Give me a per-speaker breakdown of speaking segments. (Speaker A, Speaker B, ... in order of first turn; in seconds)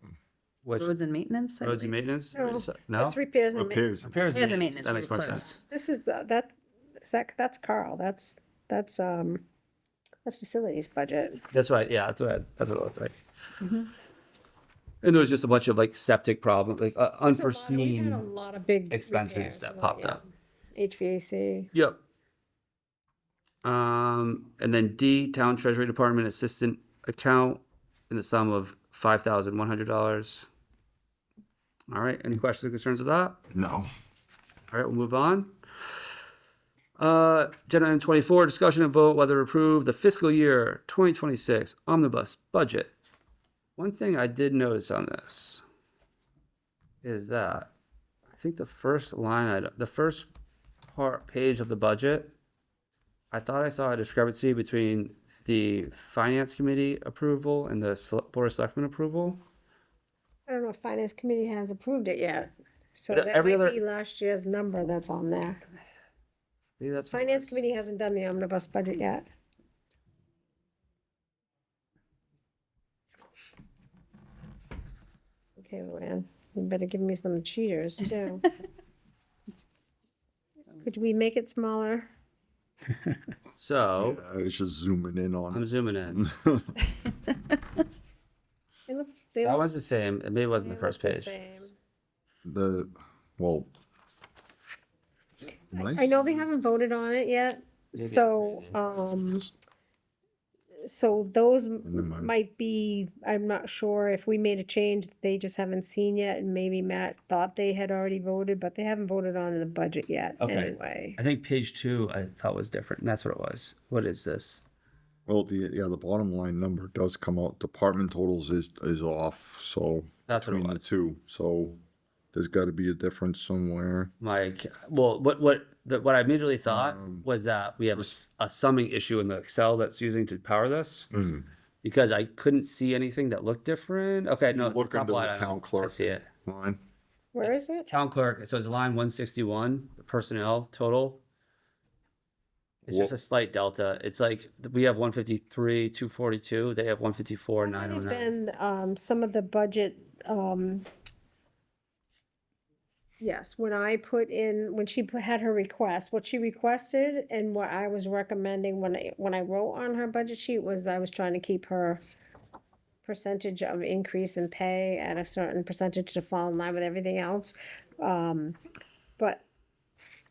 Speaker A: 0.6-0.9, 1.6-3.2, 4.0-5.6, 11.5-13.2, 15.0-18.2, 18.9-20.2, 23.6-30.5, 31.9-33.4, 34.7-35.5, 37.0-42.9, 43.8-45.6, 47.0-47.7, 48.4-50.3, 50.9-52.3, 53.3-59.4, 63.1-63.8, 66.8-67.6, 83.5-84.2, 85.5-86.2, 89.4-91.4, 97.9-98.8, 110.4-114.6, 120.3-120.9, 124.2-131.1, 131.8-136.3, 137.4-141.2, 142.8-148.3
Speaker B: 0.8-1.9, 4.3-5.5
Speaker C: 2.3-3.9, 5.0-9.4, 10.2-11.4, 17.3-20.2, 20.7-21.7, 60.5-65.6, 67.1-69.2, 75.6-78.5, 80.8-82.1, 88.9-89.7, 90.6-91.7, 95.7-99.5, 100.8-111.2, 137.3-137.9, 147.6-150.8, 153.2-162.0, 163.0-168.6
Speaker D: 3.5-4.2, 33.5-33.9, 84.0-86.8, 92.4-93.7, 95.7-96.1, 101.8-102.3, 115.3-121.8, 122.3-124.1, 126.7-127.2, 131.1-131.5, 134.5-136.8, 142.9-143.1